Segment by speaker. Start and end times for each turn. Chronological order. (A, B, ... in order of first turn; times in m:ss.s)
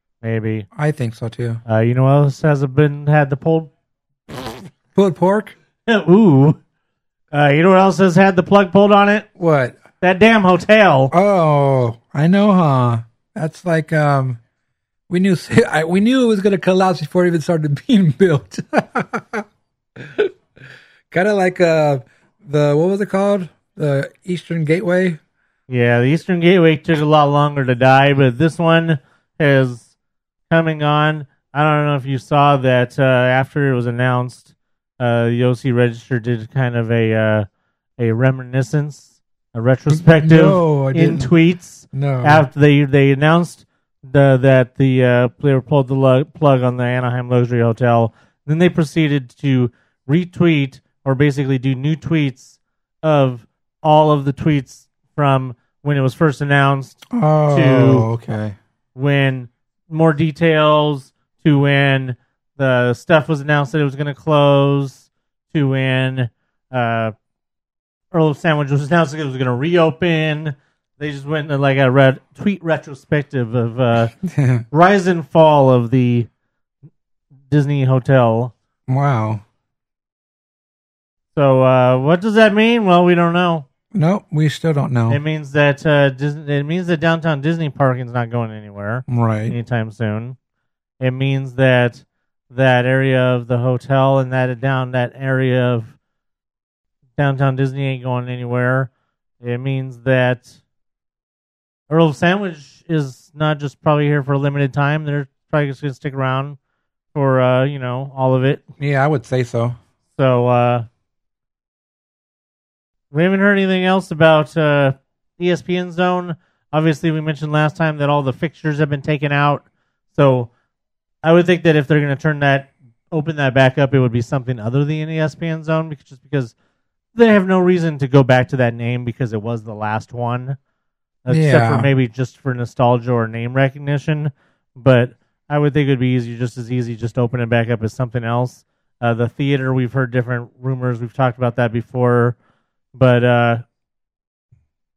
0:00.2-0:00.7 A
0:00.8-0:01.6 B
0:01.7-0:03.7 A
0:04.9-0:05.6 B
0:05.9-0:06.6 A
0:07.3-0:09.3 A
0:09.4-0:09.8 B
0:10.0-0:11.1 A
0:11.1-0:14.4 B
0:15.1-0:19.4 B
0:20.0-0:20.3 B
0:21.1-0:25.2 B
0:25.7-0:29.9 A
0:30.5-0:37.5 A
0:38.0-0:58.1 A
0:39.9-0:41.3 B
0:41.9-0:42.5 B
0:57.1-0:58.6 B
0:59.0-1:07.1 A
1:08.1-1:14.1 A
1:14.1-1:14.7 B
1:14.7-1:16.3 A
1:17.5-1:18.5 A
1:18.9-1:19.4 B
1:21.3-1:23.7 A
1:23.9-1:25.2 B
1:25.1-1:30.4 A
1:29.1-1:29.6 B
1:31.0-1:36.0 A
1:37.2-1:38.9 A
1:39.4-1:40.6 A
1:41.9-1:46.6 A
1:47.1-1:48.6 A
1:48.8-1:49.8 B
1:50.2-1:50.9 A
1:53.1-2:00.5 A
2:01.2-2:06.5 A
2:07.1-2:10.6 A
2:11.2-2:22.4 A
2:11.3-2:11.9 B
2:23.0-2:23.6 A